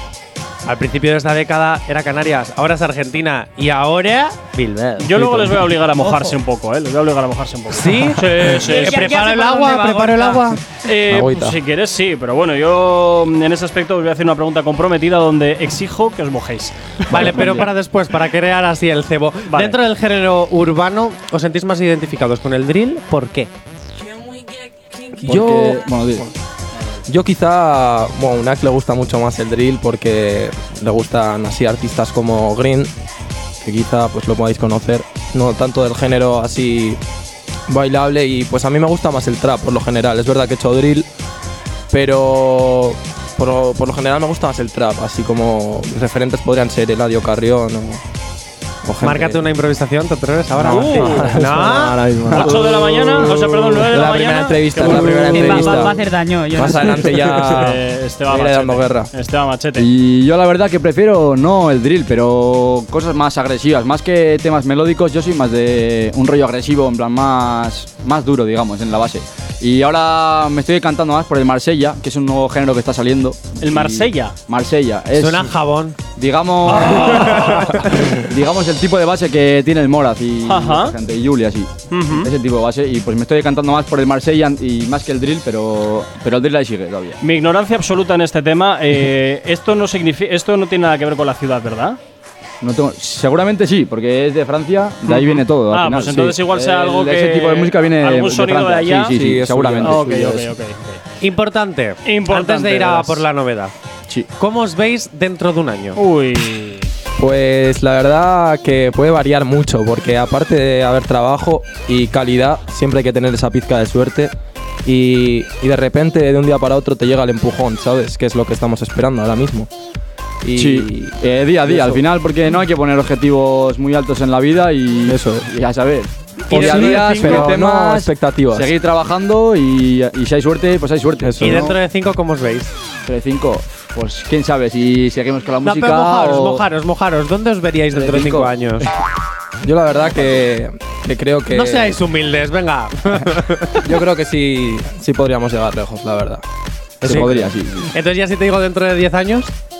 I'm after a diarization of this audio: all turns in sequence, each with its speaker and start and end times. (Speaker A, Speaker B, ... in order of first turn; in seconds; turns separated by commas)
Speaker A: 0.7-6.4, Speaker B: 5.0-9.2, Speaker A: 7.7-10.6, Speaker C: 8.6-10.5, Speaker B: 10.8-17.6, Speaker D: 11.1-11.6, Speaker A: 17.1-23.5, Speaker B: 19.5-19.8, Speaker D: 25.2-26.2, Speaker E: 25.3-26.3, Speaker D: 27.1-32.9, Speaker D: 33.6-37.0, Speaker D: 37.7-41.1, Speaker D: 41.9-48.0, Speaker D: 48.8-49.4, Speaker A: 49.0-52.0, Speaker D: 50.5-56.0, Speaker B: 50.7-51.3, Speaker B: 52.3-55.2, Speaker A: 54.9-55.8, Speaker C: 55.3-57.1, Speaker D: 56.5-59.1, Speaker B: 57.4-59.9, Speaker E: 59.8-75.5, Speaker B: 73.6-74.3, Speaker A: 75.1-76.0, Speaker E: 76.2-77.3, Speaker B: 76.7-77.9, Speaker A: 77.2-78.2, Speaker E: 78.2-87.2, Speaker B: 80.5-81.0, Speaker B: 81.9-82.3, Speaker B: 87.2-92.0, Speaker E: 92.6-100.5, Speaker B: 95.1-99.2, Speaker D: 99.1-100.2, Speaker B: 99.8-101.0, Speaker A: 101.2-103.7, Speaker B: 102.0-103.2, Speaker A: 104.4-106.0, Speaker B: 106.0-106.9, Speaker D: 107.2-114.3, Speaker D: 114.8-119.7, Speaker D: 120.4-122.0, Speaker E: 120.6-131.7, Speaker D: 125.1-125.5, Speaker A: 126.5-127.6, Speaker D: 126.5-128.7, Speaker D: 131.2-131.7, Speaker A: 131.4-132.7, Speaker E: 133.1-136.6, Speaker A: 135.6-138.9, Speaker E: 138.0-138.5, Speaker D: 139.6-142.0, Speaker A: 141.5-143.9, Speaker D: 143.8-146.4, Speaker D: 147.0-147.5, Speaker E: 147.0-147.9, Speaker A: 147.9-149.5